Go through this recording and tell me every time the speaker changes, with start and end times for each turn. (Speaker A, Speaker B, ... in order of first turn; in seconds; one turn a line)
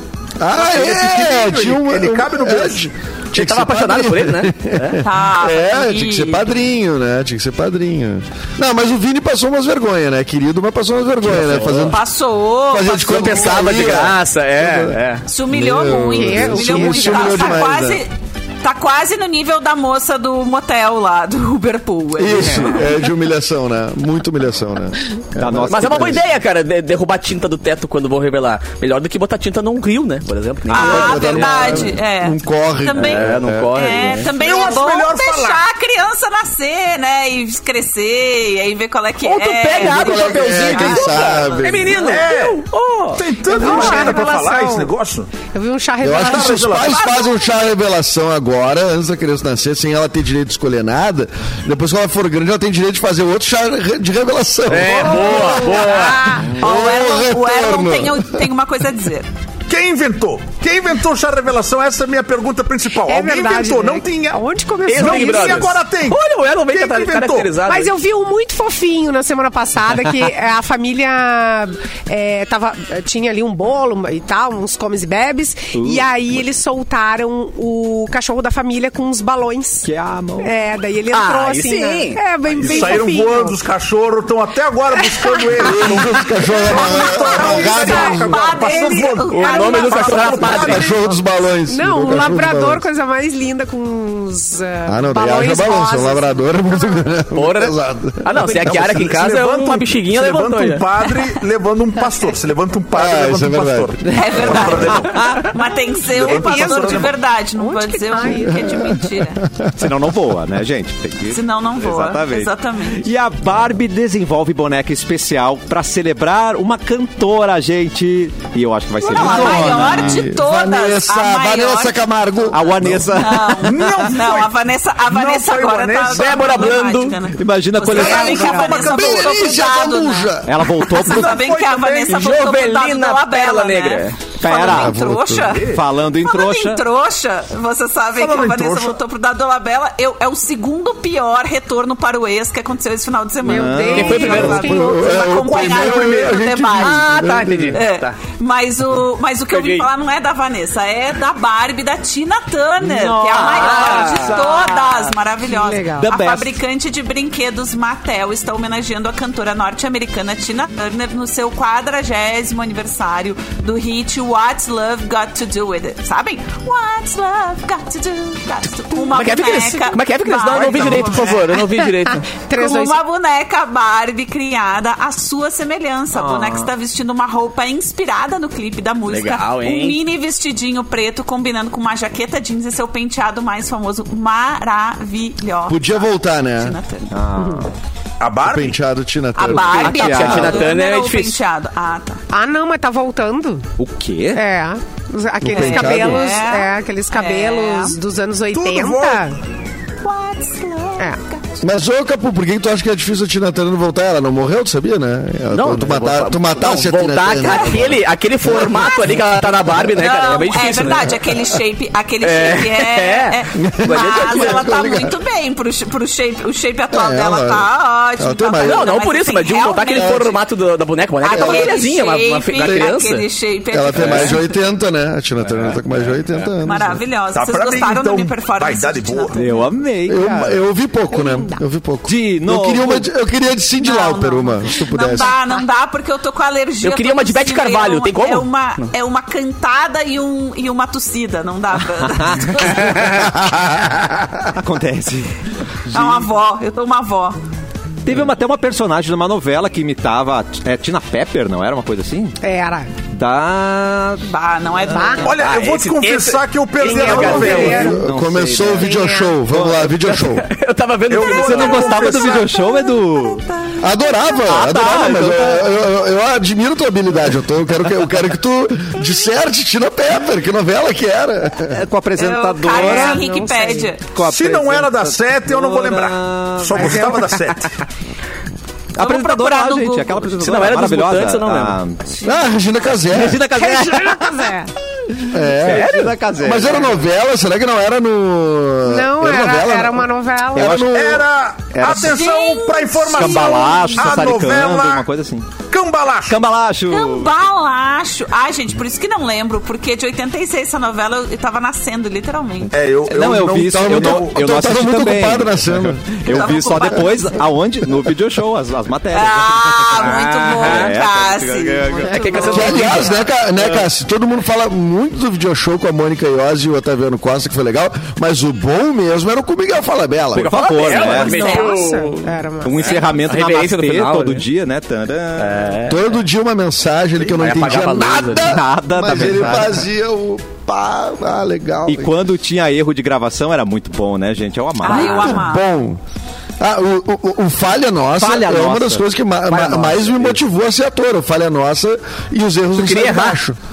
Speaker A: 0.4-12.0
Speaker B: 0.5-2.9
Speaker C: 3.3-5.0
Speaker D: 5.0-6.7
Speaker C: 11.2-12.0
Speaker D: 11.9-13.7
Speaker A: 12.7-15.0
Speaker C: 12.8-15.3
Speaker D: 15.3-18.1
Speaker A: 15.5-18.0
Speaker E: 16.1-17.6
Speaker D: 18.6-22.9
Speaker A: 22.2-26.2
Speaker C: 22.4-22.7
Speaker F: 25.4-26.2
Speaker C: 25.7-31.9
Speaker D: 30.7-42.1
Speaker A: 30.7-34.2
Speaker C: 32.9-34.7
Speaker B: 34.3-35.6
Speaker C: 39.2-44.2
Speaker A: 39.8-42.0
Speaker B: 42.0-45.3
Speaker E: 43.5-44.9
Speaker E: 45.5-46.8
Speaker A: 46.0-55.7
Speaker B: 46.1-47.0
Speaker D: 46.9-47.6
Speaker C: 54.7-56.4
Speaker E: 55.8-56.4
Speaker D: 55.8-59.3
Speaker A: 56.5-58.4
Speaker B: 59.7-64.4
Speaker E: 63.1-65.7
Speaker C: 64.9-67.9
Speaker B: 65.0-67.6
Speaker E: 67.7-79.9
Speaker F: 75.8-76.0
Speaker F: 79.8-80.5
Speaker E: 80.4-83.5
Speaker C: 81.1-83.0
Speaker B: 82.6-90.8
Speaker E: 85.0-85.7
Speaker A: 85.6-88.3
Speaker D: 86.7-91.0
Speaker E: 86.8-90.6
Speaker C: 89.3-90.8
Speaker A: 90.6-92.8
Speaker E: 91.7-96.9
Speaker A: 94.9-99.1
Speaker C: 97.3-100.9
Speaker B: 98.7-105.3
Speaker A: 102.9-104.8
Speaker D: 104.1-109.5
Speaker F: 105.1-105.5
Speaker B: 106.1-107.1
Speaker E: 106.2-108.8
Speaker A: 108.4-109.9
Speaker F: 109.8-120.3
Speaker D: 111.3-113.1
Speaker D: 119.0-122.0
Speaker A: 119.1-123.1
Speaker F: 122.5-123.8
Speaker D: 123.1-171.6
Speaker B: 123.6-124.5
Speaker B: 125.1-126.7
Speaker C: 126.2-127.2
Speaker F: 127.4-128.8
Speaker B: 127.9-129.4
Speaker A: 128.8-130.8
Speaker F: 130.4-131.4
Speaker B: 131.0-132.3
Speaker C: 132.1-134.3
Speaker F: 134.4-135.0
Speaker A: 134.5-135.6
Speaker B: 135.4-135.8
Speaker F: 135.6-136.8
Speaker B: 138.2-139.0
Speaker E: 143.4-144.9
Speaker F: 143.5-144.4
Speaker C: 143.9-144.8
Speaker A: 144.3-147.8
Speaker B: 145.1-146.4
Speaker C: 146.7-148.2
Speaker C: 149.5-149.9
Speaker F: 152.8-155.0
Speaker C: 153.3-154.5
Speaker E: 155.5-156.1
Speaker F: 156.0-156.6
Speaker C: 169.1-172.3
Speaker B: 170.5-171.4
Speaker E: 171.8-173.0
Speaker D: 172.5-187.1
Speaker F: 176.1-176.7
Speaker C: 179.1-180.0
Speaker A: 185.7-186.8
Speaker F: 187.1-187.7
Speaker B: 188.2-188.8
Speaker A: 188.4-189.9
Speaker D: 189.3-192.2
Speaker C: 189.6-191.4
Speaker F: 189.7-190.7
Speaker E: 192.3-193.7
Speaker F: 193.8-194.4
Speaker E: 194.3-199.4
Speaker A: 195.4-196.2
Speaker D: 195.6-198.0
Speaker B: 198.5-199.3
Speaker D: 200.0-201.4
Speaker A: 201.6-208.0
Speaker C: 205.5-211.3
Speaker D: 207.4-207.7
Speaker A: 208.5-208.9
Speaker D: 210.0-220.4
Speaker C: 212.2-214.8
Speaker A: 213.6-215.2
Speaker A: 216.9-218.9
Speaker C: 218.6-223.3
Speaker A: 220.0-220.3
Speaker D: 221.2-224.5
Speaker A: 221.4-221.7
Speaker A: 222.6-222.9
Speaker A: 223.7-227.0
Speaker F: 223.9-224.4
Speaker F: 225.5-225.8
Speaker D: 226.6-229.6
Speaker B: 227.3-229.4
Speaker F: 229.3-230.6
Speaker A: 230.1-235.3
Speaker E: 231.1-231.6
Speaker F: 232.1-233.1
Speaker D: 233.8-243.2
Speaker C: 236.8-238.8
Speaker F: 242.2-243.0
Speaker F: 244.5-245.3
Speaker F: 245.9-246.2
Speaker D: 245.9-247.4
Speaker F: 248.1-252.3
Speaker E: 252.4-252.9
Speaker F: 253.1-254.2
Speaker D: 254.2-255.4
Speaker E: 254.9-255.2
Speaker F: 254.9-255.8
Speaker B: 255.2-257.8
Speaker C: 255.9-257.9
Speaker E: 256.8-258.0
Speaker A: 257.2-260.5
Speaker F: 257.2-259.0
Speaker E: 258.8-259.3
Speaker F: 259.5-259.9
Speaker C: 260.1-262.2
Speaker B: 261.1-262.6
Speaker F: 261.3-263.4
Speaker D: 262.4-263.8
Speaker A: 263.8-271.8
Speaker F: 264.5-265.7
Speaker F: 271.6-273.3
Speaker D: 272.2-274.1
Speaker E: 272.7-273.9
Speaker F: 274.1-277.2
Speaker B: 274.2-277.7
Speaker E: 276.7-277.2
Speaker F: 278.9-282.0
Speaker D: 279.0-280.4
Speaker C: 280.4-281.8
Speaker D: 282.1-282.4
Speaker A: 282.2-283.6
Speaker F: 283.1-284.1
Speaker E: 283.6-284.7
Speaker A: 285.3-291.3
Speaker F: 285.6-287.0
Speaker C: 285.6-286.2
Speaker E: 288.9-290.8
Speaker F: 290.6-291.1
Speaker B: 290.8-295.1
Speaker F: 291.7-292.2
Speaker D: 291.9-294.3
Speaker F: 293.1-295.5
Speaker B: 295.7-296.4
Speaker F: 296.3-297.3
Speaker D: 296.9-302.8
Speaker B: 302.7-304.5
Speaker F: 303.1-312.2
Speaker A: 303.7-306.6
Speaker D: 306.3-307.4
Speaker D: 309.1-313.2
Speaker C: 310.0-311.0
Speaker C: 312.1-313.1
Speaker E: 312.1-312.6
Speaker A: 312.5-320.9
Speaker C: 320.3-324.4
Speaker F: 320.4-321.5
Speaker E: 321.2-323.0
Speaker D: 321.2-321.8
Speaker F: 322.6-325.7
Speaker C: 325.4-326.0
Speaker A: 325.9-332.1
Speaker C: 327.2-329.3
Speaker F: 328.4-329.8
Speaker F: 331.9-335.4
Speaker D: 334.8-335.7
Speaker A: 334.9-336.0
Speaker A: 336.6-343.6
Speaker F: 338.2-339.1
Speaker C: 339.5-340.1
Speaker C: 342.7-343.4